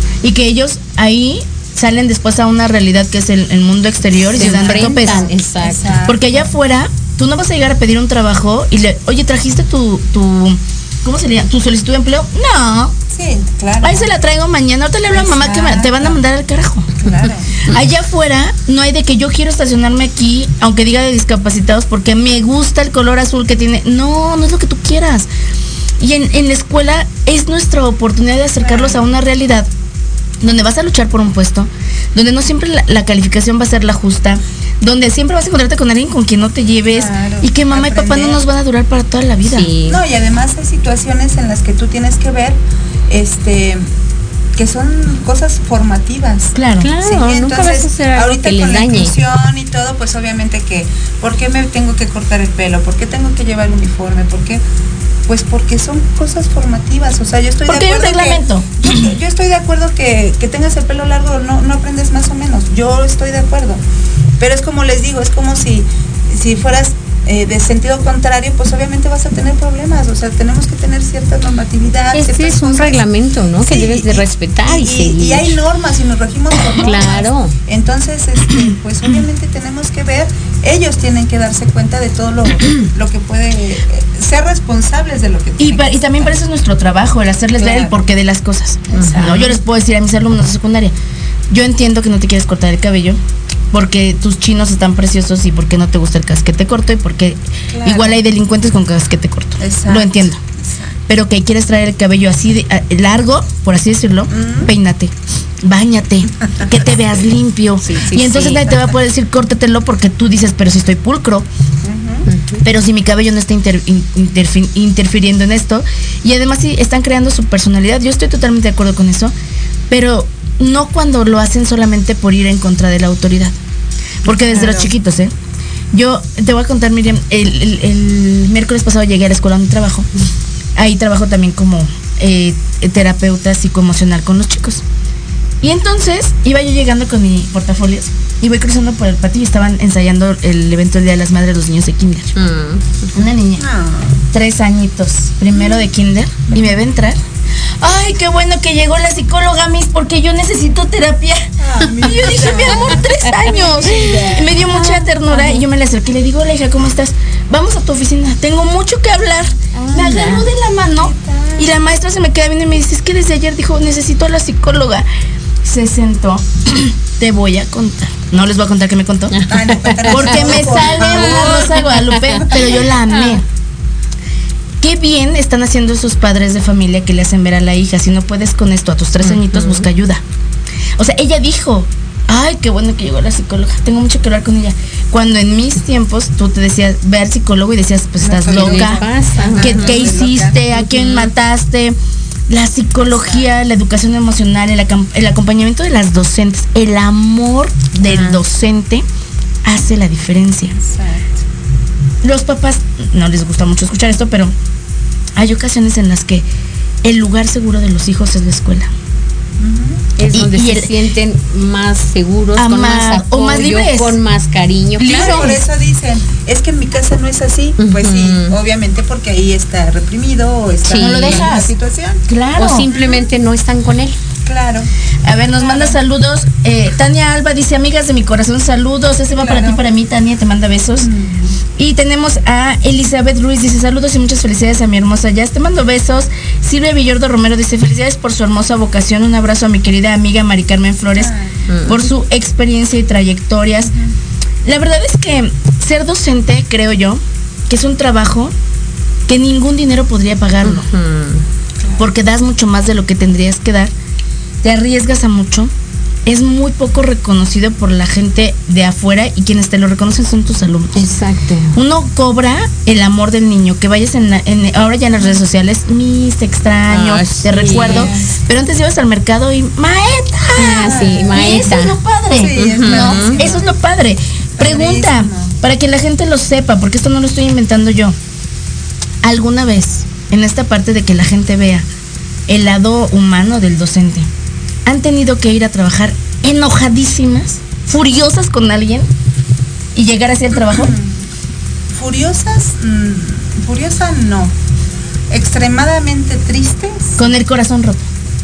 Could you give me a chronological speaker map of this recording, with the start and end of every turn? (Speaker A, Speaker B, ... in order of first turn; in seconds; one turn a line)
Speaker A: 0.2-5.2
Speaker B: 4.3-6.4
Speaker C: 4.4-6.0
Speaker A: 6.0-12.9
Speaker B: 13.1-14.1
Speaker A: 13.8-16.9
Speaker B: 15.1-16.2
Speaker B: 17.0-17.6
Speaker A: 17.6-25.3
Speaker A: 26.0-29.7
Speaker B: 28.6-29.1
Speaker A: 30.4-39.7
Speaker B: 36.9-38.4
Speaker C: 39.5-40.0
Speaker B: 39.9-43.9
Speaker B: 44.6-54.6
Speaker A: 46.5-46.9
Speaker C: 46.8-49.1
Speaker B: 55.3-63.8
Speaker A: 57.7-59.1
Speaker B: 64.4-73.0
Speaker C: 72.1-75.6
Speaker B: 73.6-86.3
Speaker C: 76.8-77.5
Speaker A: 85.6-90.9
Speaker B: 87.6-88.0
Speaker B: 88.9-89.5
Speaker C: 88.9-89.4
Speaker A: 91.5-93.2
Speaker A: 93.7-100.4
Speaker B: 97.7-98.2
Speaker B: 99.6-101.0
Speaker A: 101.1-111.5
Speaker B: 104.3-104.7
Speaker C: 107.8-108.9
Speaker B: 111.8-112.3
Speaker C: 112.3-112.6
Speaker A: 112.6-119.3
Speaker A: 119.9-123.6
Speaker A: 124.2-125.3
Speaker B: 124.6-124.8
Speaker A: 125.9-130.1
Speaker A: 130.8-134.8
Speaker A: 135.6-142.3
Speaker C: 142.4-142.9
Speaker A: 143.1-143.7
Speaker B: 143.6-144.2
Speaker A: 144.3-147.2
Speaker A: 147.8-165.1
Speaker B: 151.6-155.2
Speaker C: 159.9-160.5
Speaker B: 160.9-161.8
Speaker A: 165.6-169.4
Speaker C: 169.3-172.6
Speaker B: 169.5-171.8
Speaker A: 170.1-173.4
Speaker B: 172.4-172.8
Speaker A: 174.8-180.2
Speaker C: 179.2-179.9
Speaker A: 181.0-189.0
Speaker B: 188.2-190.6
Speaker C: 188.5-190.1
Speaker A: 189.6-192.0
Speaker C: 190.7-191.3
Speaker A: 192.5-199.1
Speaker B: 193.1-193.5
Speaker C: 198.0-198.4
Speaker A: 199.6-200.8
Speaker B: 200.8-201.4
Speaker A: 202.2-204.5
Speaker A: 205.4-206.5
Speaker A: 207.0-208.9
Speaker B: 209.6-210.1
Speaker C: 210.2-215.6
Speaker A: 210.3-210.9
Speaker A: 212.6-214.2
Speaker A: 215.0-215.6
Speaker B: 215.0-222.2
Speaker C: 217.8-218.6
Speaker C: 220.8-221.5
Speaker A: 220.9-221.7
Speaker A: 222.3-222.9
Speaker C: 222.6-224.2
Speaker B: 222.9-223.3
Speaker B: 224.5-224.9
Speaker A: 225.2-231.1
Speaker B: 225.6-226.0
Speaker B: 229.3-229.8
Speaker B: 231.0-231.6
Speaker A: 231.8-241.3
Speaker B: 241.2-241.6
Speaker C: 241.7-242.1
Speaker A: 241.9-243.9
Speaker A: 244.7-248.5
Speaker A: 249.3-250.9
Speaker C: 250.6-251.4
Speaker A: 252.0-253.9
Speaker A: 254.6-255.7
Speaker A: 256.3-261.1
Speaker C: 261.0-261.8
Speaker A: 261.7-278.2
Speaker C: 266.9-268.1
Speaker B: 267.8-268.3
Speaker C: 270.6-272.0
Speaker B: 270.8-271.4
Speaker B: 272.3-273.6
Speaker C: 272.6-273.6
Speaker B: 274.6-275.6
Speaker A: 279.2-281.9
Speaker A: 282.5-284.3
Speaker A: 284.9-289.1
Speaker A: 289.9-290.9
Speaker B: 290.6-291.2
Speaker B: 291.9-294.5
Speaker B: 295.3-297.3
Speaker A: 297.2-298.1